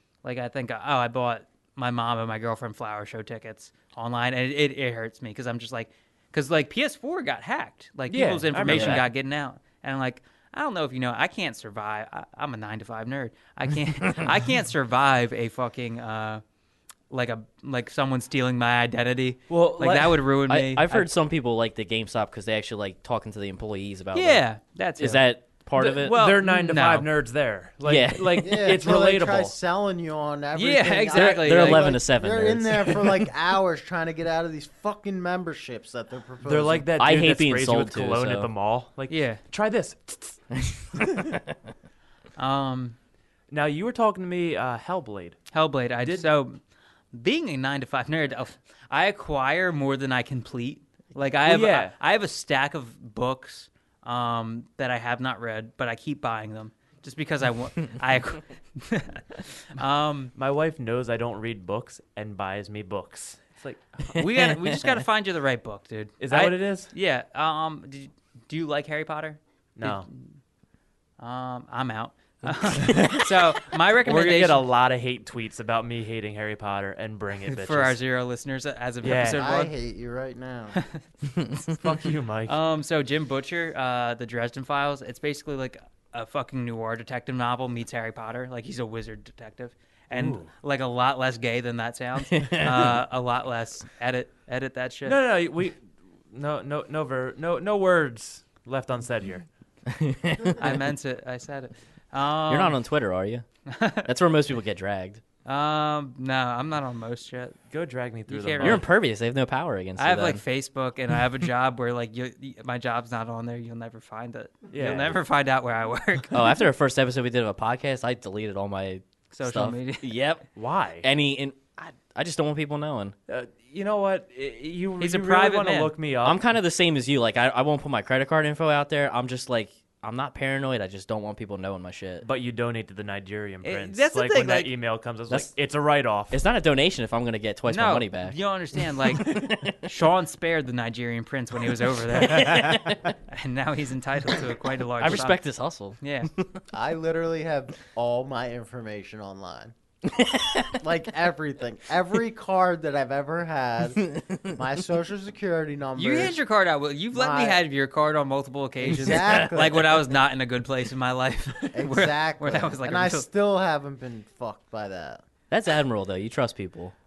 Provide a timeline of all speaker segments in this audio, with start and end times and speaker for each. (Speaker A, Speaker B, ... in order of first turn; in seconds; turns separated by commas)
Speaker A: 0.2-16.4, Speaker B: 8.1-9.1, Speaker C: 8.7-9.0, Speaker A: 17.1-21.1, Speaker B: 19.5-20.2, Speaker C: 20.5-24.4, Speaker A: 24.1-27.1, Speaker C: 25.0-26.1, Speaker B: 25.8-29.6, Speaker C: 27.8-28.8, Speaker D: 28.4-36.9, Speaker A: 30.5-31.9, Speaker C: 31.1-33.3, Speaker B: 36.4-41.0, Speaker C: 37.0-38.5, Speaker A: 39.1-39.4, Speaker C: 41.0-41.4, Speaker A: 42.4-43.0, Speaker B: 43.5-45.4, Speaker A: 45.5-46.6, Speaker B: 46.0-46.3, Speaker A: 47.1-60.3, Speaker B: 51.5-52.0, Speaker B: 60.4-64.2, Speaker A: 64.1-70.4, Speaker B: 66.2-66.9, Speaker B: 69.8-70.1, Speaker A: 71.2-74.6, Speaker C: 72.7-73.2, Speaker B: 72.8-73.2, Speaker B: 74.0-78.0, Speaker A: 77.5-79.7, Speaker B: 79.0-79.4, Speaker D: 79.2-80.8, Speaker A: 80.8-81.0, Speaker B: 81.7-82.6, Speaker A: 82.5-95.2, Speaker B: 90.1-90.5, Speaker C: 92.4-92.9, Speaker B: 95.1-99.5, Speaker C: 99.9-100.8, Speaker A: 100.6-102.8, Speaker C: 102.5-103.5, Speaker A: 103.7-104.1, Speaker C: 104.0-105.2, Speaker A: 105.5-107.6, Speaker B: 107.7-108.8, Speaker A: 108.3-108.8, Speaker C: 108.6-110.4, Speaker A: 110.0-116.5, Speaker B: 114.7-115.2, Speaker C: 116.3-120.5, Speaker A: 119.3-120.1, Speaker B: 120.6-121.1, Speaker C: 121.0-123.2, Speaker B: 123.3-126.4, Speaker A: 125.0-125.9, Speaker C: 126.2-132.2, Speaker B: 132.2-136.4, Speaker A: 133.6-134.7, Speaker C: 136.3-138.4, Speaker A: 137.7-145.4, Speaker C: 139.1-139.9, Speaker C: 142.1-143.1, Speaker C: 145.0-146.6, Speaker A: 146.0-146.3, Speaker D: 146.7-149.7, Speaker C: 150.1-150.8, Speaker D: 150.7-156.4, Speaker A: 156.0-163.3, Speaker D: 157.1-157.6, Speaker D: 158.8-160.1, Speaker D: 161.7-165.2, Speaker C: 165.5-166.9